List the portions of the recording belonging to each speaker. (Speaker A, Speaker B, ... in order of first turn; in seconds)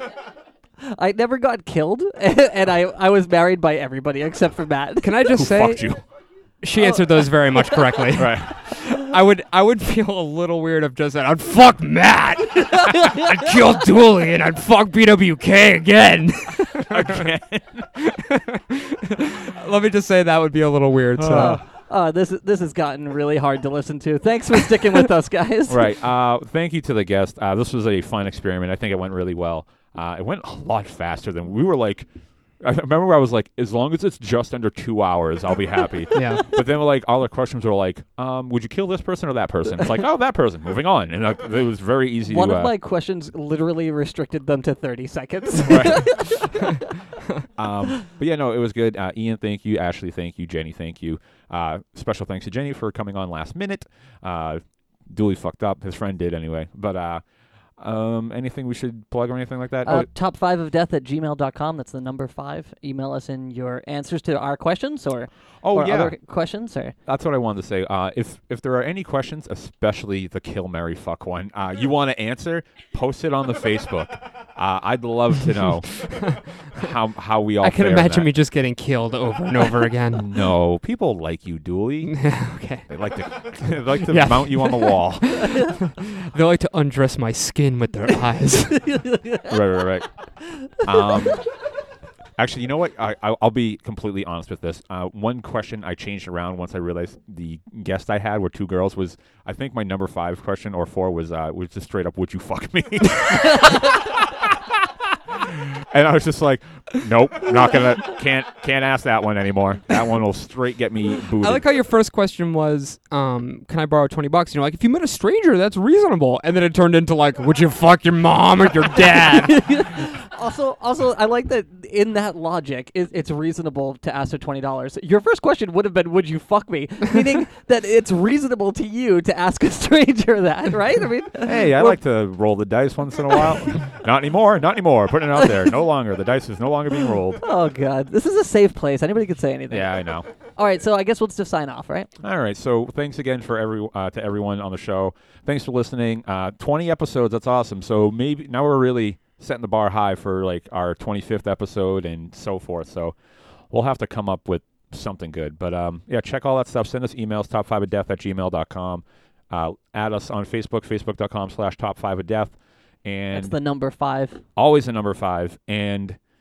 Speaker A: 0.8-5.2, 6.8-8.0, 12.9-13.2, 21.3-25.9, 42.2-46.7, 59.8-66.9, 88.9-89.5, 119.4-132.0, 137.4-142.1, 163.3-164.4
Speaker B: 5.0-5.9, 6.6-17.1, 18.0-21.6, 36.1-36.5, 76.0-76.4, 77.6-80.4, 82.0-82.8, 84.0-89.0, 111.3-119.7
Speaker C: 5.3-6.0, 8.2-8.5, 16.9-17.9, 21.2-21.6, 25.7-32.1, 32.6-42.7, 45.6-46.3, 47.6-57.2, 57.8-60.1, 65.6-66.2, 67.0-78.3, 80.1-82.3, 82.9-85.6, 89.5-90.1, 90.8-91.4, 92.4-111.6, 131.4-137.4, 139.7-140.3, 142.2-153.1, 153.7-163.6, 164.6-166.2